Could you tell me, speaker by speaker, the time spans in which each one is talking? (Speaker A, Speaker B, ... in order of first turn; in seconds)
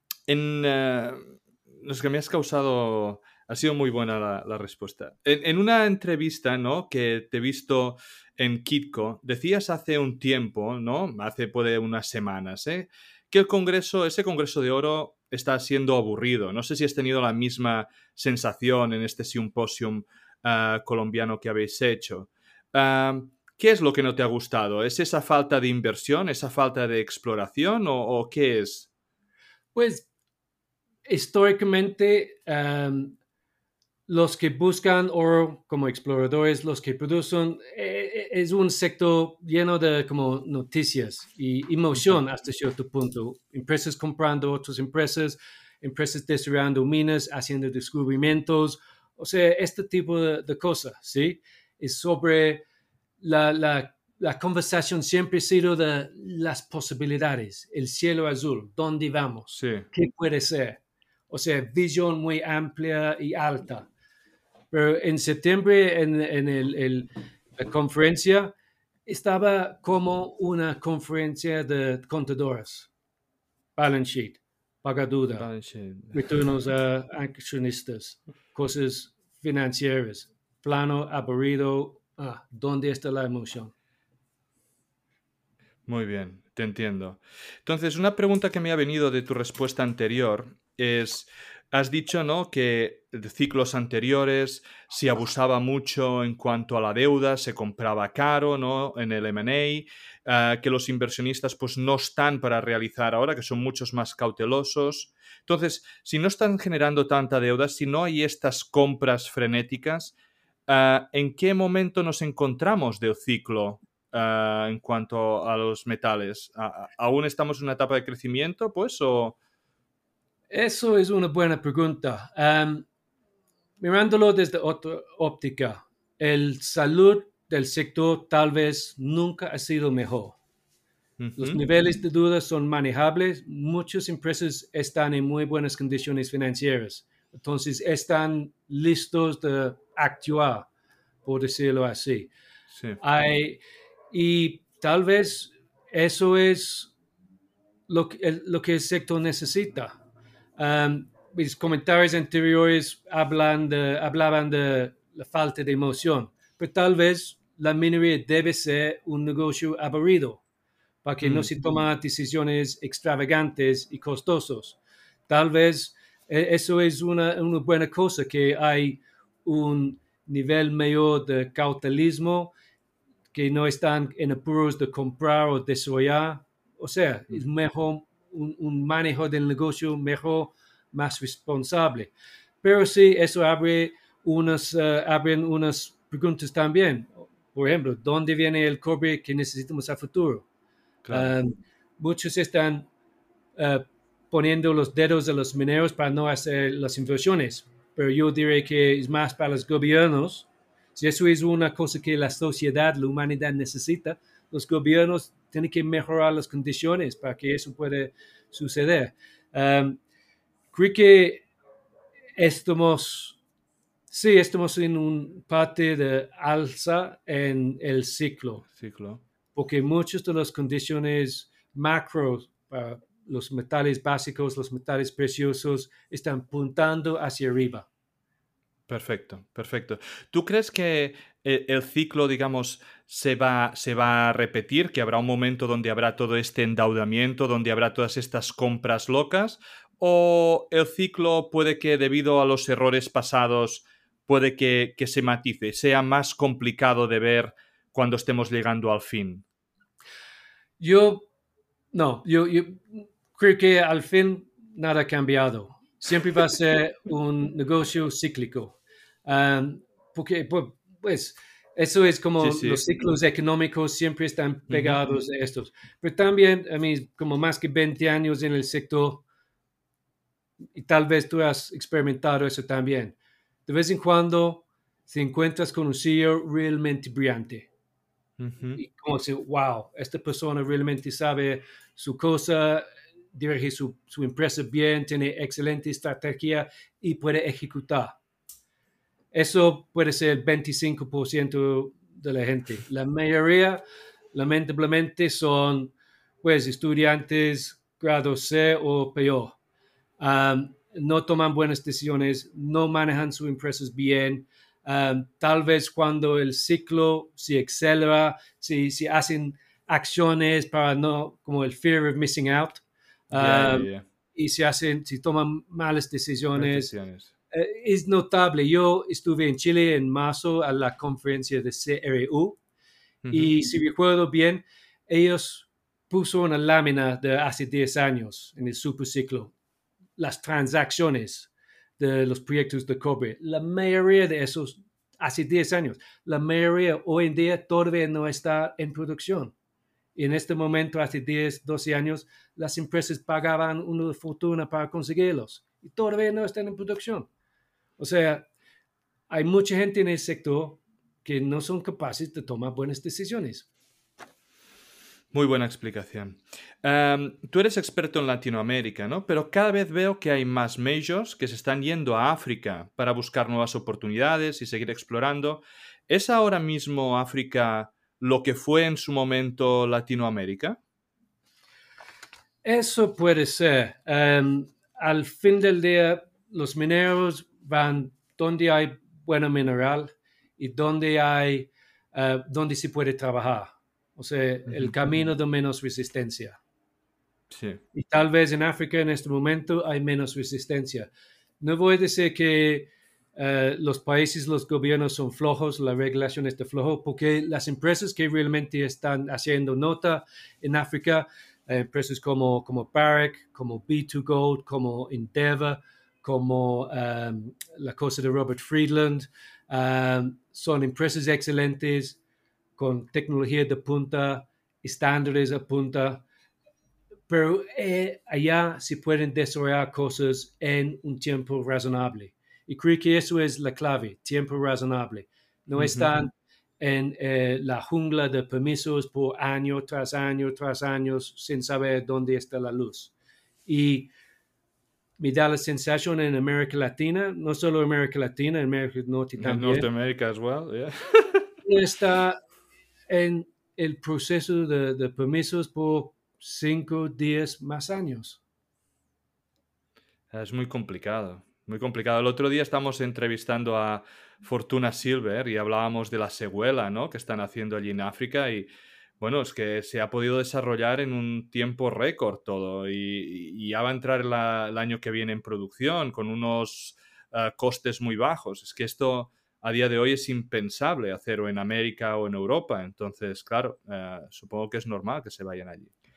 Speaker A: 0.3-28.9, 59.5-59.9, 75.4-76.3, 85.8-110.2, 110.7-119.4, 131.2-131.6, 161.2-161.5, 191.0-191.3, 218.8-219.2, 228.9-249.4, 262.4-262.8, 264.7-265.0, 278.4-278.8, 313.3-314.0, 316.6-317.3, 323.2-323.5, 355.3-370.8, 387.5-387.8, 425.7-426.1, 439.4-441.5, 450.3-458.7, 459.2-475.9
Speaker B: 29.7-30.1, 31.1-33.1, 34.1-52.6, 53.2-63.9, 64.7-68.5, 69.0-72.9, 73.8-75.5, 76.1-83.7, 120.5-122.8, 123.8-130.4, 131.4-140.7, 141.2-142.3, 143.0-143.6, 144.1-146.9, 147.9-149.9, 150.6-160.4, 161.0-172.5, 173.3-182.1, 182.6-190.4, 191.1-192.9, 193.6-210.0, 210.7-211.4, 212.4-213.4, 214.1-218.7, 219.5-227.9, 250.8-251.3, 251.9-269.2, 270.8-273.1, 273.7-277.7, 278.7-288.1, 289.3-293.8, 294.3-299.6, 300.2-316.9, 317.5-322.6, 323.3-329.5, 330.2-339.5, 340.1-347.3, 348.0-348.5, 349.3-353.7, 372.6-386.6, 387.9-391.1, 391.6-412.2, 412.8-416.2, 417.3-426.3, 426.8-433.1, 433.6-434.1, 435.2-439.9, 441.6-442.4, 443.1-448.4